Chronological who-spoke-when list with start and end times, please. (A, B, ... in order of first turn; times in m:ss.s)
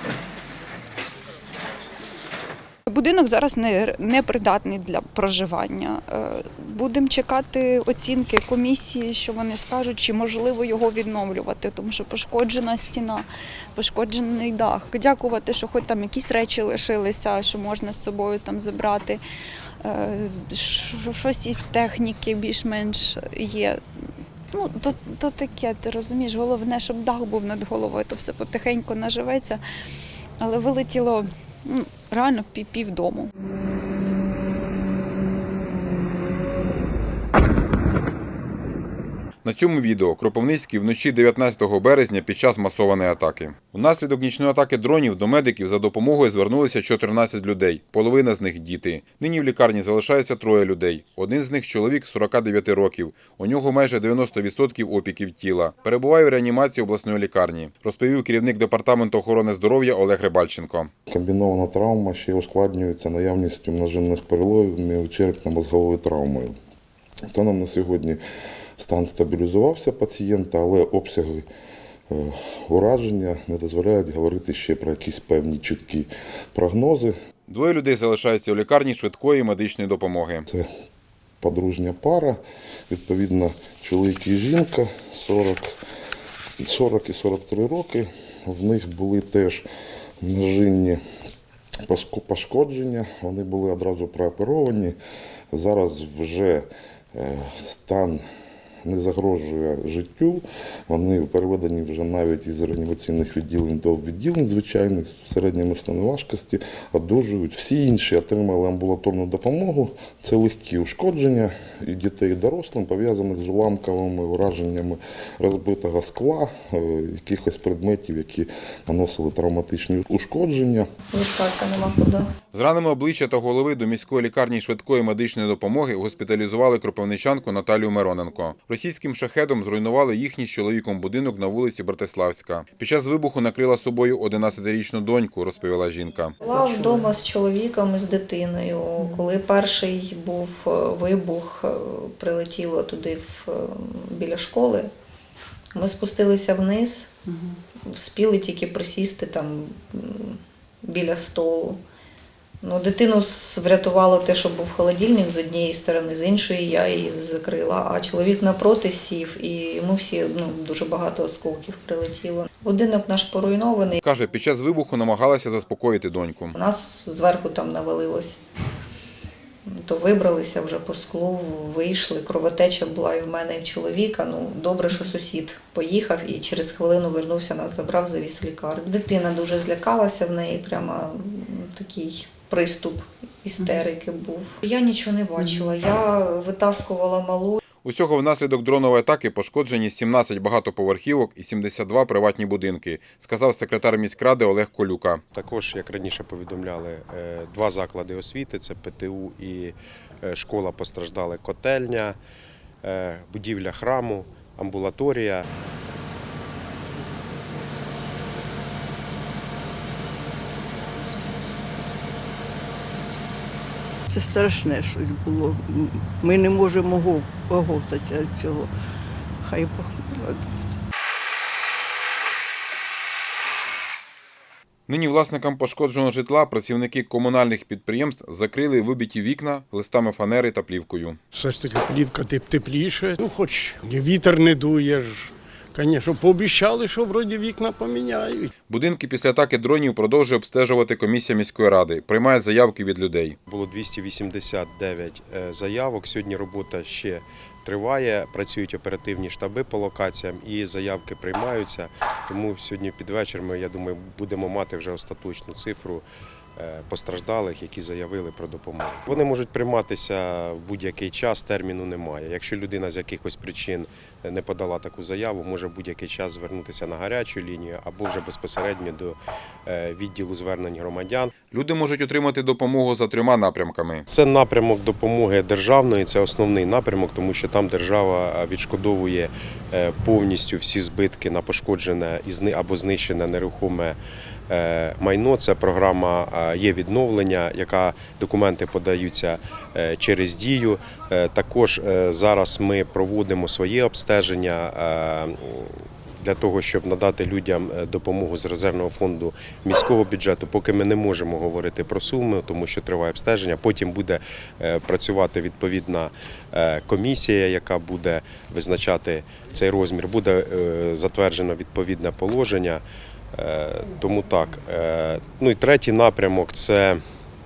0:02.9-0:19.2 A
0:19.8-0:23.8 A
0:24.5-0:29.6 A
0:30.4-0:33.3 A
0:39.4-1:00.9 B
1:01.1-1:06.5 C
1:07.3-1:08.2 C
1:08.8-1:11.5 C
1:12.1-1:17.2 C
1:17.5-1:20.4 B
1:21.4-1:22.4 C
1:22.9-1:25.7 C
1:26.6-1:29.6 C
1:30.2-1:31.0 C
1:31.9-1:35.0 C
1:35.5-1:38.2 C
1:38.8-2:00.9 C
2:01.1-2:02.3 D
2:02.5-2:16.4 B
2:16.4-2:24.9 D
2:25.7-2:27.1 D
2:27.9-2:31.8 D
2:32.6-2:44.0 D
2:44.0-2:46.6 B
2:46.5-2:48.4 D
2:49.7-3:07.6 D
3:07.8-3:15.2 B
3:15.3-3:22.2 E
3:22.8-3:25.5 E
3:34.2-3:38.6 F
3:39.5-3:40.3 F
3:44.9-3:51.2 B
3:51.3-3:58.5 G
3:58.7-4:03.4 B
4:03.5-4:31.3 E
4:31.5-4:34.1 B
4:34.1-5:17.0 E